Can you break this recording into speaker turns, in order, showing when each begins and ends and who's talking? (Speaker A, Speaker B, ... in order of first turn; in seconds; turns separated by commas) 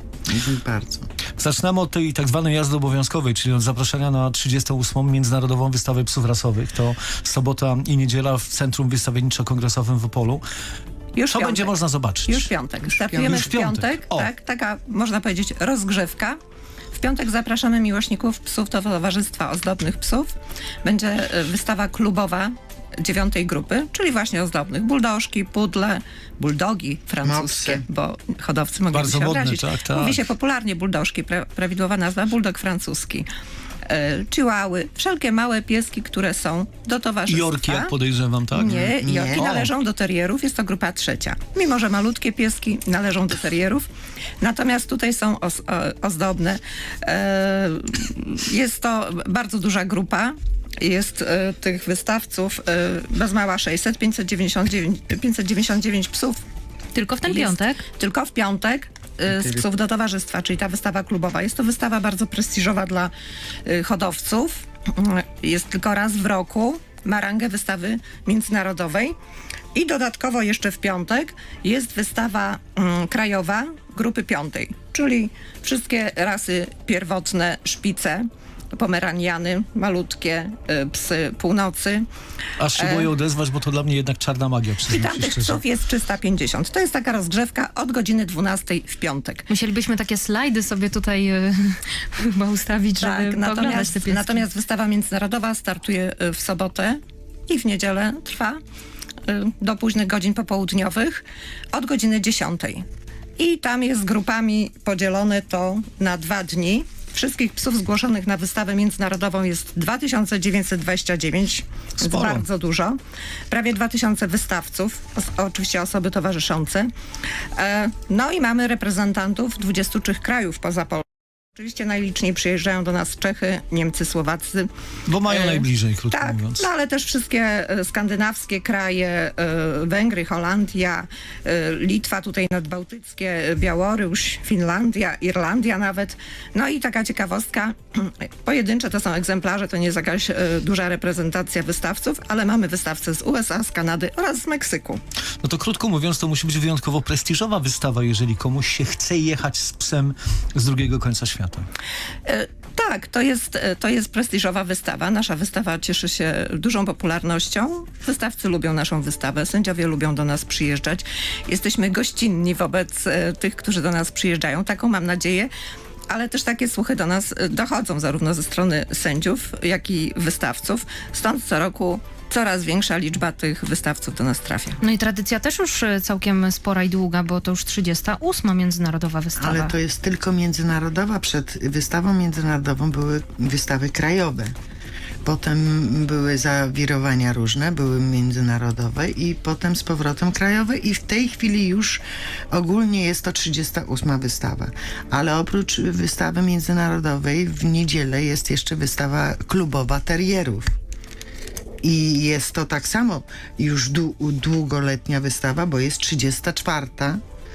Speaker A: 0.3-1.1, Speaker B: 1.4-10.4, Speaker C: 11.2-11.7, Speaker B: 11.3-12.5, Speaker C: 12.2-16.4, Speaker A: 12.9-13.4, Speaker B: 13.2-14.3, Speaker C: 16.9-33.3, Speaker A: 27.2-27.8, Speaker B: 28.9-30.2, Speaker C: 33.9-37.9, Speaker B: 37.3-39.7, Speaker C: 38.5-43.9, Speaker A: 38.6-39.5, Speaker C: 44.4-56.4, Speaker D: 56.9-57.8, Speaker C: 57.2-63.1, Speaker A: 59.3-59.6, Speaker C: 63.6-69.1, Speaker C: 69.7-82.1, Speaker B: 82.6-85.6, Speaker C: 82.7-83.1, Speaker C: 84.9-89.5, Speaker D: 89.5-94.5, Speaker C: 93.0-98.6, Speaker C: 99.2-102.8, Speaker C: 103.4-113.0, Speaker B: 112.0-112.4, Speaker C: 113.5-116.9, Speaker C: 117.5-124.7, Speaker B: 125.1-126.6, Speaker C: 125.2-145.0, Speaker B: 145.4-151.7, Speaker C: 152.2-165.5, Speaker C: 166.1-174.8, Speaker D: 174.8-179.7, Speaker A: 179.3-184.5, Speaker A: 185.2-200.7, Speaker A: 201.8-207.2